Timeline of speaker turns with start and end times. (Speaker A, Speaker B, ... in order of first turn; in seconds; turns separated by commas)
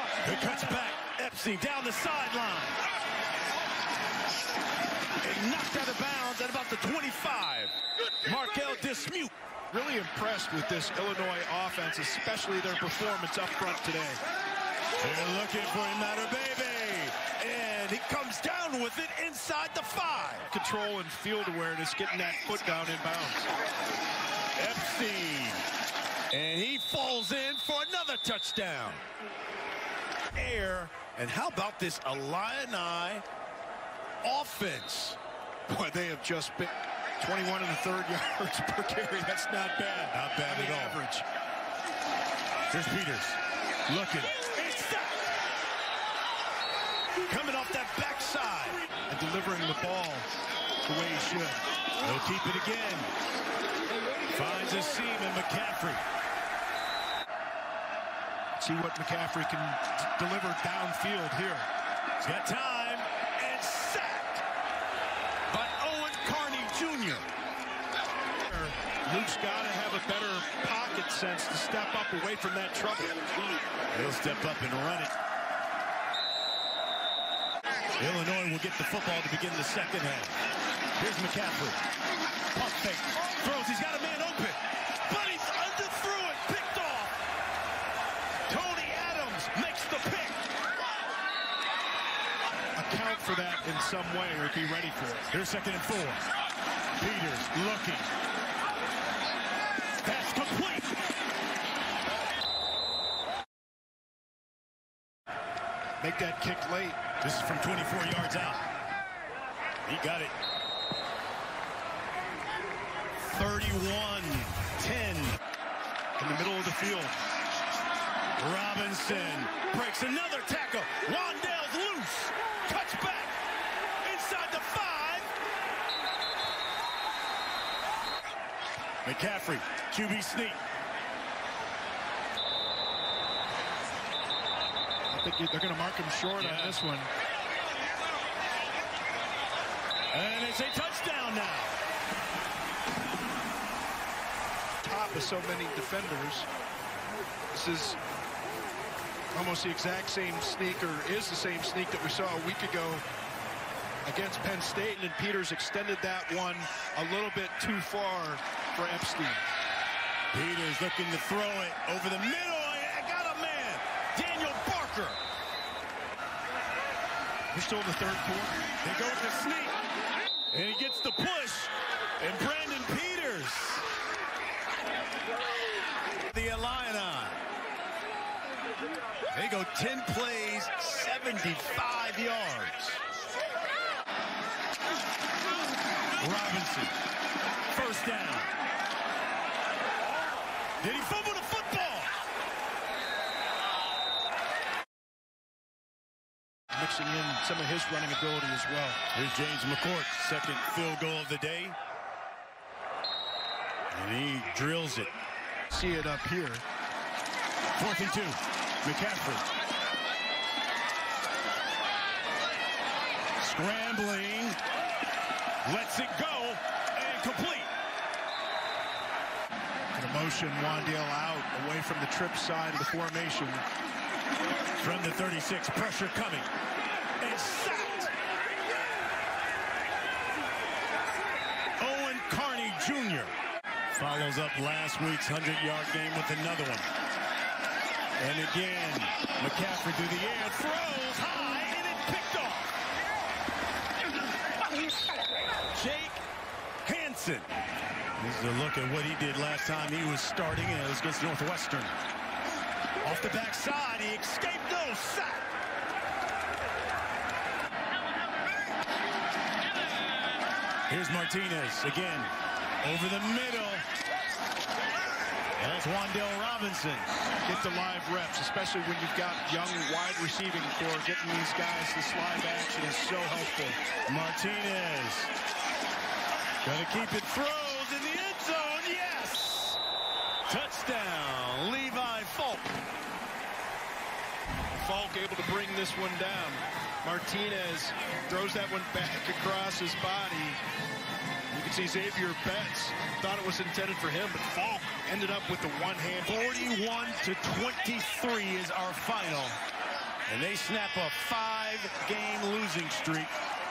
Speaker A: 0.2-2.8, Speaker A: 5.2-9.3, Speaker B: 9.7-14.2, Speaker A: 15.0-20.5, Speaker B: 20.5-23.5, Speaker A: 24.6-25.6, Speaker A: 26.3-29.1, Speaker A: 30.3-33.2, Speaker A: 34.2-35.2, Speaker B: 35.7-41.2, Speaker A: 40.1-41.0, Speaker A: 42.7-45.1, Speaker A: 47.2-48.8, Speaker B: 49.1-50.3, Speaker B: 50.8-51.6, Speaker A: 52.0-53.1, Speaker A: 54.2-56.0, Speaker B: 58.6-61.7, Speaker A: 62.2-64.4, Speaker A: 65.5-67.3, Speaker B: 68.4-73.2, Speaker A: 73.9-75.1, Speaker A: 78.0-80.3, Speaker A: 81.0-81.8, Speaker A: 82.5-87.2, Speaker A: 88.5-90.4, Speaker B: 92.8-95.3, Speaker A: 95.3-96.2, Speaker A: 97.0-98.1, Speaker A: 100.0-100.9, Speaker B: 106.0-107.0, Speaker A: 107.2-108.6, Speaker A: 109.8-110.3, Speaker A: 113.3-115.4, Speaker B: 116.2-117.2, Speaker A: 118.4-123.4, Speaker A: 124.0-125.3, Speaker A: 129.0-130.6, Speaker B: 135.1-137.1, Speaker A: 136.4-136.8, Speaker A: 140.1-141.7, Speaker B: 144.8-146.5, Speaker B: 147.5-148.0, Speaker B: 149.3-153.0, Speaker B: 154.0-159.4, Speaker A: 160.3-165.2, Speaker B: 167.5-168.6, Speaker A: 168.8-169.8, Speaker A: 170.5-173.8, Speaker A: 176.3-177.4, Speaker A: 179.3-183.0, Speaker A: 186.2-186.9, Speaker A: 187.7-188.5, Speaker A: 190.8-192.1, Speaker B: 196.7-199.0, Speaker A: 199.1-201.8, Speaker A: 203.9-205.1, Speaker B: 205.7-206.6, Speaker A: 207.8-209.4, Speaker A: 213.4-214.6, Speaker A: 215.6-217.7, Speaker B: 219.9-223.6, Speaker A: 224.8-226.5, Speaker A: 227.2-228.1, Speaker A: 231.8-233.3, Speaker A: 233.9-236.9, Speaker A: 238.2-242.7, Speaker A: 245.7-246.2, Speaker A: 246.8-247.5, Speaker A: 248.2-251.9, Speaker A: 253.0-255.5, Speaker A: 260.9-262.3, Speaker A: 262.8-263.9, Speaker A: 265.6-267.1, Speaker B: 267.4-273.8, Speaker A: 274.1-275.3, Speaker A: 276.6-279.8, Speaker A: 280.5-282.8, Speaker B: 284.8-290.6, Speaker B: 291.5-296.3, Speaker A: 296.2-299.6, Speaker A: 300.2-303.3